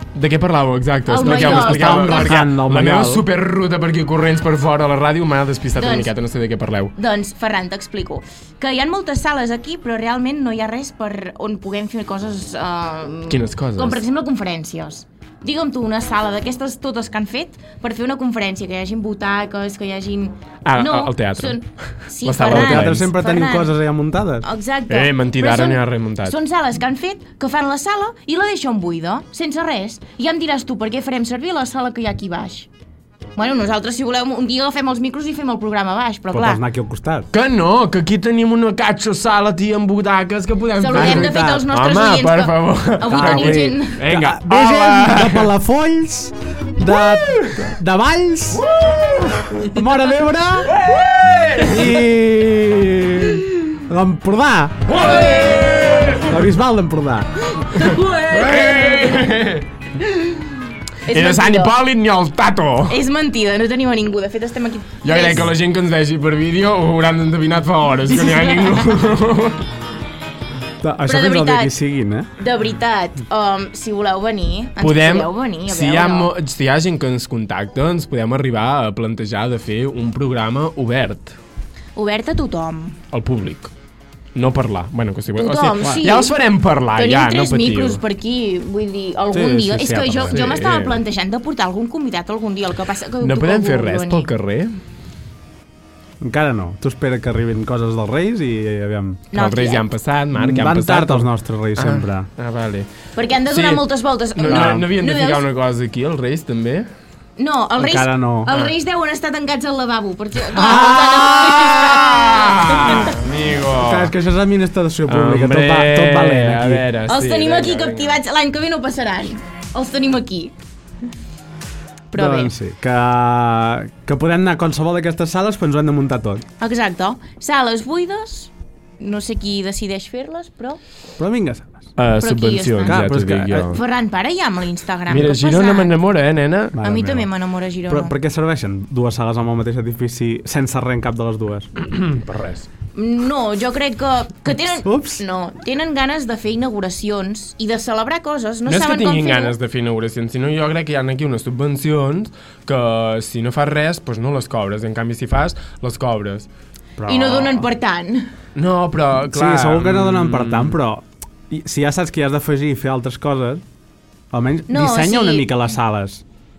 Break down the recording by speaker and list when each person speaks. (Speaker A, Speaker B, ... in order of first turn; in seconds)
Speaker A: 0.1-6.9, 13.3-14.0, 20.6-21.6, 22.2-23.1, 24.9-26.4, 37.3-45.5, 47.0-47.6, 48.5-49.7, 50.7-52.0, 54.9-56.4, 57.8-59.7, 61.1-63.0, 65.0-69.6, 74.8-81.4, 83.1-83.7, 84.3-88.0, 90.3-91.0, 93.2-94.7, 99.3-102.9, 103.5-106.9, 108.5-108.7, 110.5-114.1, 115.1-118.2, 132.0-133.8, 135.1-136.8, 141.8-142.7, 148.7-156.5, 158.5-160.8
Speaker B: 1.1-2.4, 5.8-6.1, 7.0-23.7, 24.4-32.7, 33.4-36.6, 40.8-44.0, 57.7-59.2, 61.0-61.7, 62.9-65.5, 68.1-68.9, 71.0-71.7, 72.4-76.3, 82.0-83.0, 85.4-86.3, 87.0-94.3, 99.3-99.8, 103.1-105.5, 107.4-113.1, 117.1-120.5, 122.1-122.5, 126.6-130.8, 132.2-133.0, 133.7-135.9, 136.8-138.1, 142.9-149.5, 157.1-158.3, 164.7-165.5
Speaker C: 1.2-3.2, 22.4-24.4, 36.3-37.3, 40.9-41.6, 43.1-48.6, 49.6-50.8, 51.6-55.0, 56.2-57.7, 70.8-72.3, 89.3-90.4, 96.2-99.2, 100.3-102.3, 104.5-104.9, 107.8-108.5, 113.8-116.8, 122.1-126.5, 131.2-131.9, 132.8-133.8, 136.7-137.3, 137.9-141.7, 144.8-145.2, 157.0-157.6, 159.3-163.6, 164.3-166.2